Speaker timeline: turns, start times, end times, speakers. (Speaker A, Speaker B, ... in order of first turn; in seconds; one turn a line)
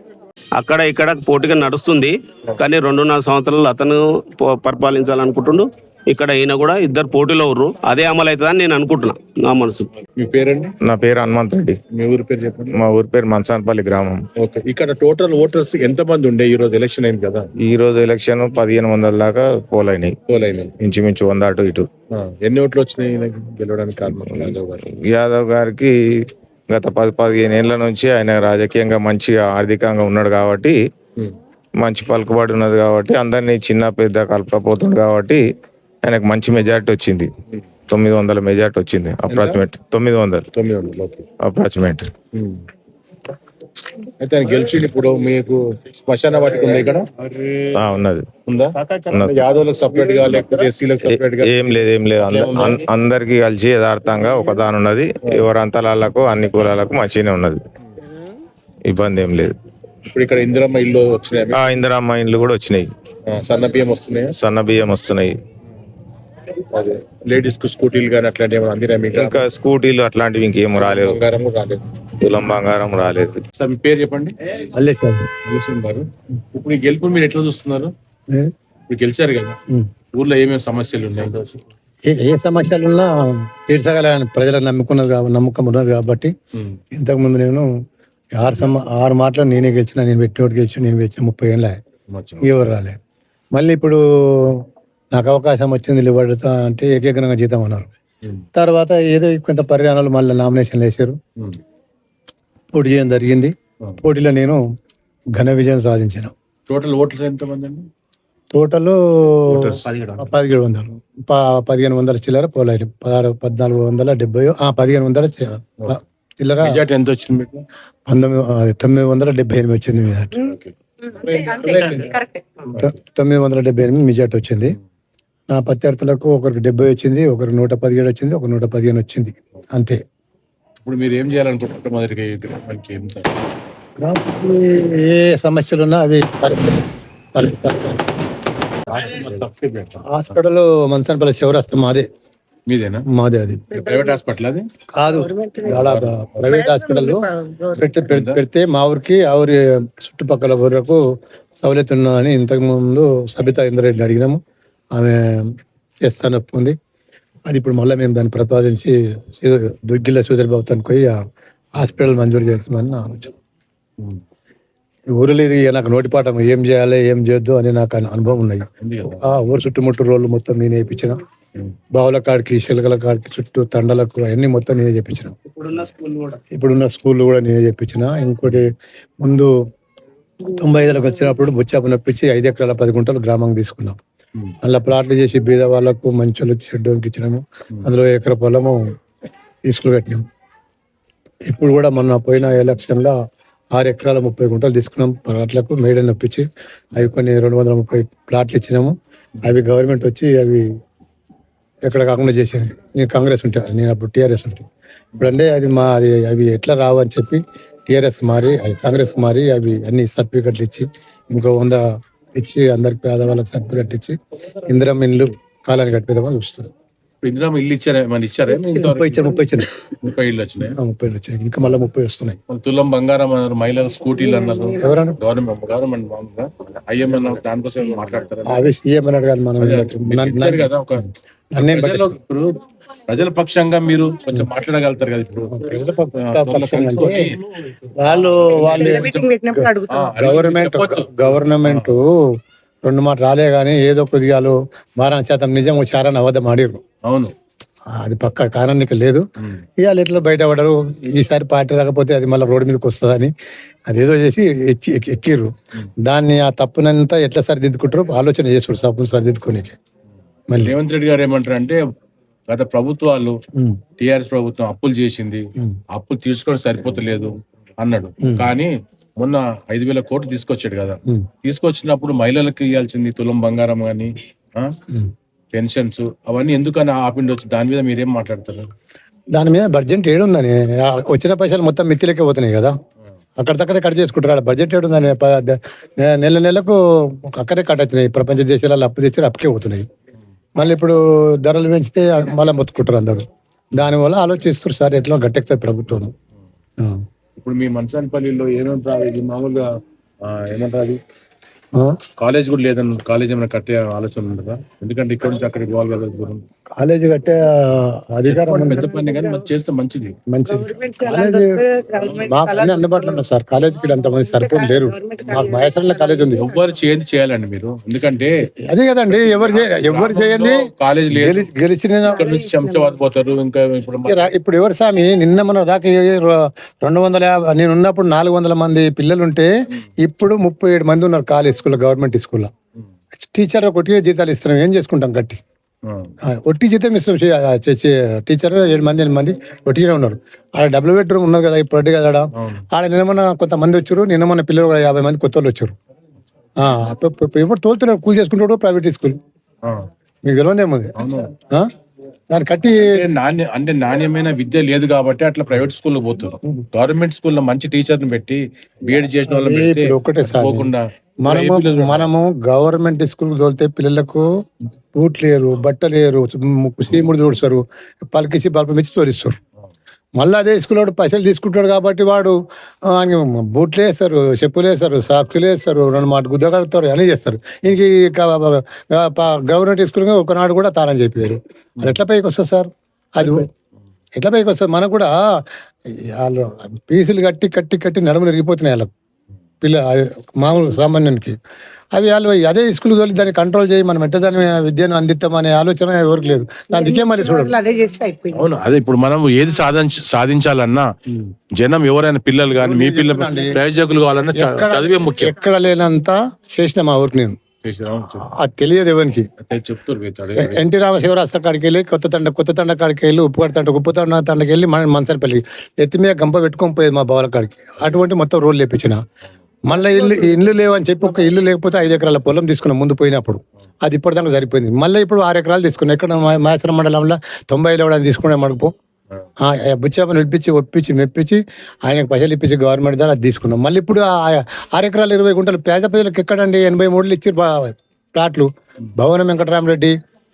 Speaker A: 0.6-9.9
Speaker B: 10.2-10.7
Speaker C: 10.8-11.8
Speaker B: 11.9-12.8
Speaker C: 12.7-14.2
Speaker B: 14.4-17.5
Speaker C: 17.6-20.1
Speaker B: 20.3-20.7
Speaker C: 20.8-21.9
Speaker B: 22.1-24.8
Speaker C: 24.1-25.9
Speaker C: 26.7-30.8
Speaker C: 31.8-35.4
Speaker C: 36.0-37.3
Speaker C: 37.9-40.5
Speaker B: 39.3-39.6
Speaker B: 40.5-41.3
Speaker C: 41.4-42.1
Speaker B: 42.3-42.6
Speaker B: 44.2-47.6
Speaker C: 47.7-48.3
Speaker B: 48.5-52.8
Speaker C: 49.1-49.5
Speaker C: 51.0-57.6
Speaker C: 58.9-59.6
Speaker B: 60.1-61.8
Speaker C: 61.5-62.9
Speaker B: 63.3-64.3
Speaker C: 64.4-65.4
Speaker B: 66.7-69.4
Speaker C: 69.1-71.2
Speaker B: 70.8-71.8
Speaker C: 72.2-73.4
Speaker B: 73.6-74.3
Speaker D: 74.7-75.3
Speaker B: 75.4-77.9
Speaker B: 78.9-79.6
Speaker B: 80.1-81.6
Speaker D: 82.1-86.3
Speaker D: 86.9-87.7
Speaker D: 88.3-91.8
Speaker B: 92.1-92.6
Speaker D: 92.4-93.0
Speaker D: 93.5-97.9
Speaker D: 98.5-101.2
Speaker D: 102.7-104.6
Speaker D: 105.4-106.3
Speaker B: 106.7-107.9
Speaker D: 108.5-116.8
Speaker B: 109.5-110.3
Speaker B: 116.6-117.6
Speaker D: 118.1-120.5
Speaker B: 120.3-122.2
Speaker E: 121.3-122.4
Speaker D: 122.8-124.8
Speaker D: 125.5-130.0
Speaker B: 130.8-133.3
Speaker D: 134.0-136.8
Speaker D: 137.3-138.0
Speaker B: 138.9-140.1
Speaker D: 140.1-142.1
Speaker B: 142.7-143.1
Speaker D: 143.1-143.6
Speaker B: 143.7-144.7
Speaker E: 143.7-144.0
Speaker D: 145.0-151.0
Speaker E: 145.2-145.7
Speaker B: 145.6-146.6
Speaker E: 146.5-147.8
Speaker B: 148.1-148.4
Speaker D: 151.6-154.4
Speaker D: 154.9-155.4
Speaker D: 156.0-156.7
Speaker D: 157.5-161.2
Speaker D: 161.8-163.3
Speaker D: 165.1-171.2
Speaker B: 168.8-169.3
Speaker D: 171.9-175.4
Speaker B: 175.7-176.1
Speaker D: 176.5-178.7
Speaker D: 179.2-179.5
Speaker D: 180.5-184.0
Speaker D: 184.6-188.8
Speaker D: 189.6-190.2
Speaker D: 191.5-193.1
Speaker D: 193.7-200.7
Speaker D: 201.9-204.7
Speaker D: 205.2-211.8
Speaker D: 212.4-216.7
Speaker B: 217.2-219.4
Speaker D: 218.7-219.7
Speaker B: 220.0-220.8
Speaker D: 220.6-222.4
Speaker B: 222.5-228.7
Speaker D: 224.8-225.2
Speaker D: 228.5-230.7
Speaker B: 229.6-232.6
Speaker D: 231.5-232.2
Speaker B: 233.1-235.6
Speaker D: 235.4-237.3
Speaker B: 236.2-237.4
Speaker D: 238.0-242.1
Speaker B: 238.2-239.3
Speaker E: 238.8-240.1
Speaker B: 239.9-241.9
Speaker D: 242.8-246.8
Speaker B: 247.1-247.3
Speaker D: 248.0-249.2
Speaker D: 249.8-253.3
Speaker D: 253.9-255.5
Speaker D: 256.0-259.8
Speaker D: 260.5-260.8
Speaker B: 260.6-261.8
Speaker B: 262.5-263.4
Speaker D: 263.6-263.8
Speaker B: 264.0-265.4
Speaker B: 265.9-274.7
Speaker D: 268.2-268.5
Speaker B: 275.5-278.7
Speaker D: 279.3-282.7
Speaker D: 283.4-289.9
Speaker D: 290.6-296.1
Speaker B: 297.4-299.6
Speaker B: 300.2-301.0
Speaker B: 302.2-306.4
Speaker D: 306.8-308.9
Speaker B: 308.2-310.1
Speaker D: 310.3-311.6
Speaker E: 310.5-313.2
Speaker B: 311.9-312.4
Speaker D: 312.2-316.5
Speaker E: 314.3-316.5
Speaker B: 315.2-315.6
Speaker B: 316.3-318.3
Speaker D: 318.6-320.6
Speaker B: 319.1-321.5
Speaker D: 321.1-322.3
Speaker B: 322.1-324.3
Speaker D: 324.1-332.5
Speaker D: 333.2-335.4
Speaker B: 335.9-336.1
Speaker D: 336.3-345.8
Speaker B: 342.4-342.6
Speaker D: 346.6-349.2
Speaker D: 350.2-350.9
Speaker B: 351.0-351.3
Speaker D: 352.3-352.9
Speaker B: 352.9-362.1
Speaker D: 358.9-360.7
Speaker D: 361.2-364.3
Speaker D: 364.9-369.4
Speaker D: 370.2-372.3
Speaker D: 372.9-383.5
Speaker D: 384.2-385.4
Speaker D: 386.0-388.9
Speaker D: 389.6-391.4
Speaker D: 391.9-397.5
Speaker E: 396.7-398.5
Speaker B: 398.3-400.9
Speaker B: 401.6-405.3
Speaker D: 402.5-403.6
Speaker D: 404.3-407.4
Speaker B: 407.6-408.3
Speaker D: 408.3-409.3
Speaker B: 409.4-410.6
Speaker D: 410.4-419.0
Speaker D: 419.7-428.7
Speaker D: 429.4-439.9